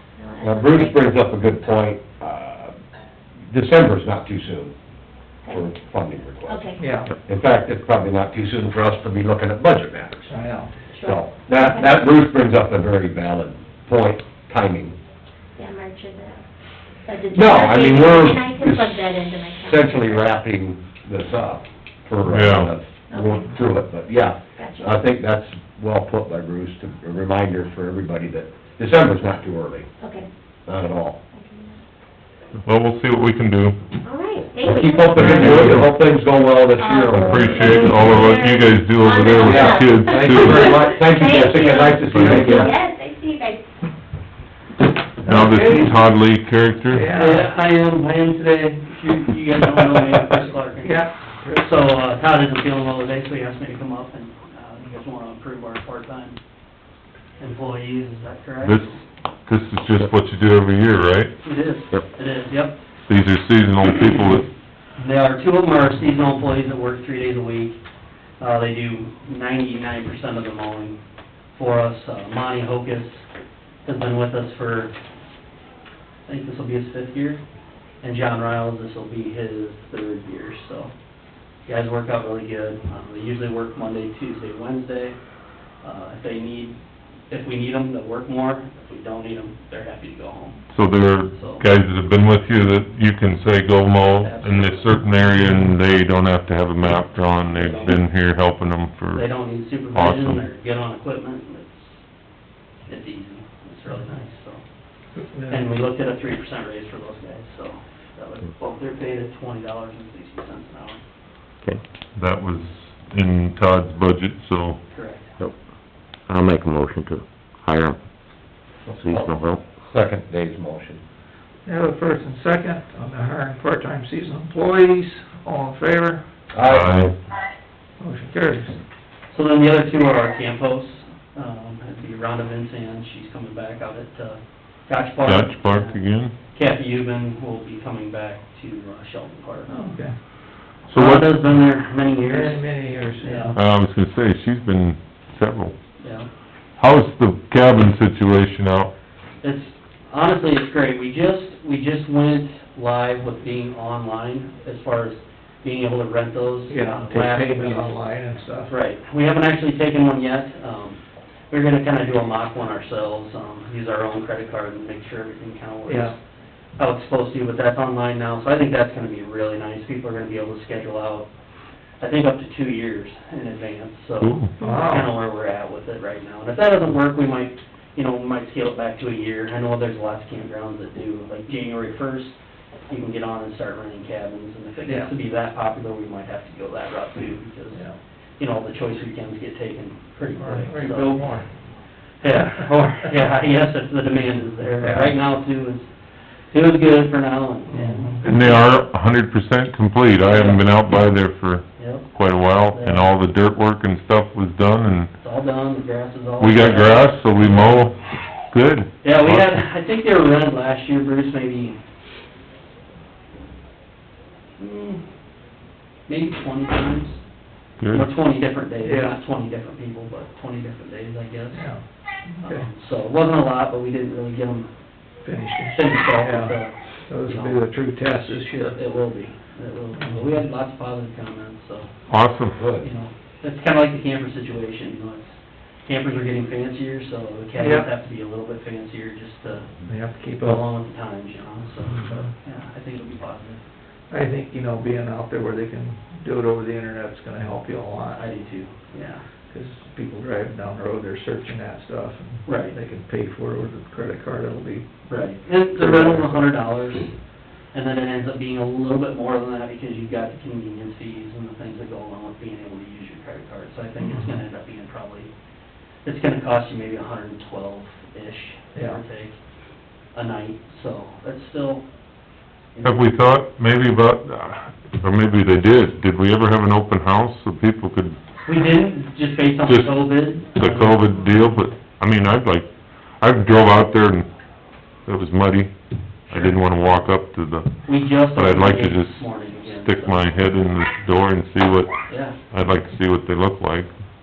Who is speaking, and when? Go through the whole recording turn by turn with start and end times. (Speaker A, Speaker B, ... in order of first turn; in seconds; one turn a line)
Speaker A: 0.2-1.1
Speaker B: 0.4-2.7
Speaker B: 3.5-4.7
Speaker B: 5.5-6.7
Speaker A: 6.5-6.8
Speaker C: 6.8-7.1
Speaker B: 7.2-10.3
Speaker C: 10.3-10.7
Speaker A: 10.9-11.9
Speaker B: 11.0-15.0
Speaker A: 15.6-16.4
Speaker A: 17.1-20.3
Speaker B: 17.3-19.0
Speaker B: 19.6-29.9
Speaker D: 22.2-22.7
Speaker A: 23.1-23.5
Speaker A: 24.6-25.0
Speaker A: 30.0-30.3
Speaker B: 30.6-31.2
Speaker A: 31.3-31.8
Speaker D: 32.6-33.8
Speaker A: 34.0-35.6
Speaker B: 34.6-38.0
Speaker D: 35.1-35.9
Speaker A: 36.8-43.6
Speaker D: 37.2-40.7
Speaker B: 39.3-42.7
Speaker D: 42.1-42.5
Speaker C: 45.2-46.0
Speaker D: 45.2-47.1
Speaker C: 46.9-47.5
Speaker E: 47.1-56.4
Speaker C: 50.8-51.7
Speaker E: 57.4-59.0
Speaker D: 58.6-58.9
Speaker D: 59.5-61.3
Speaker E: 61.4-62.8
Speaker D: 63.1-64.5
Speaker E: 65.0-67.8
Speaker E: 68.4-71.0
Speaker E: 71.5-73.2
Speaker E: 73.8-74.9
Speaker E: 76.2-77.4
Speaker E: 78.0-80.9
Speaker E: 81.7-85.2
Speaker E: 85.8-86.8
Speaker E: 87.3-90.6
Speaker D: 90.7-99.3
Speaker E: 91.3-91.6
Speaker E: 94.1-95.0
Speaker E: 97.6-98.0
Speaker E: 99.1-101.9
Speaker D: 99.9-100.4
Speaker E: 102.9-104.6
Speaker C: 105.2-105.7
Speaker E: 105.5-111.0
Speaker D: 112.1-114.8
Speaker E: 114.9-115.3
Speaker F: 116.3-118.0
Speaker B: 118.9-121.0
Speaker F: 119.0-119.6
Speaker C: 121.7-126.2
Speaker B: 126.5-127.1
Speaker D: 126.6-127.1
Speaker C: 128.0-128.8
Speaker E: 129.3-139.9
Speaker D: 135.2-136.3
Speaker C: 139.7-140.1
Speaker D: 140.9-141.4
Speaker E: 140.9-142.7
Speaker C: 142.1-143.6
Speaker E: 143.2-143.6
Speaker D: 143.5-145.7
Speaker E: 146.0-146.3
Speaker D: 146.8-148.9
Speaker E: 149.4-158.0
Speaker C: 156.7-158.7
Speaker E: 158.6-166.1
Speaker C: 165.9-166.1
Speaker E: 166.8-171.3
Speaker E: 172.0-182.3
Speaker D: 174.2-174.5
Speaker C: 174.6-175.1
Speaker E: 182.9-187.8
Speaker E: 188.4-191.3
Speaker C: 190.4-191.5
Speaker E: 192.2-195.9
Speaker C: 194.8-195.2
Speaker E: 196.5-198.7
Speaker C: 197.7-198.2
Speaker D: 198.2-205.1
Speaker E: 200.3-200.7
Speaker E: 201.8-203.1
Speaker E: 205.2-207.9
Speaker D: 206.4-209.5
Speaker E: 209.0-211.8
Speaker E: 214.6-215.0
Speaker E: 216.1-217.2
Speaker D: 217.8-218.1
Speaker E: 217.9-221.7
Speaker C: 218.8-219.2
Speaker C: 221.5-222.7
Speaker E: 222.4-224.7
Speaker C: 225.2-228.8
Speaker E: 225.7-231.9
Speaker C: 229.9-230.4
Speaker D: 232.1-232.6
Speaker B: 232.6-232.9
Speaker E: 232.8-235.3
Speaker E: 235.8-239.7
Speaker C: 237.6-237.9
Speaker C: 239.9-240.6
Speaker E: 240.4-243.6
Speaker C: 241.9-242.3
Speaker C: 244.1-248.2
Speaker E: 248.1-249.2
Speaker C: 249.5-255.2
Speaker E: 252.4-252.8
Speaker E: 255.1-257.1
Speaker C: 255.7-256.4
Speaker E: 257.7-265.3
Speaker C: 264.0-264.4
Speaker E: 266.0-269.4
Speaker C: 268.7-269.0
Speaker E: 270.1-271.8
Speaker E: 272.7-273.2
Speaker D: 272.8-278.2
Speaker E: 278.4-281.3
Speaker D: 279.7-284.3
Speaker D: 285.0-285.7
Speaker D: 286.3-293.9
Speaker E: 287.8-290.2
Speaker E: 292.1-292.4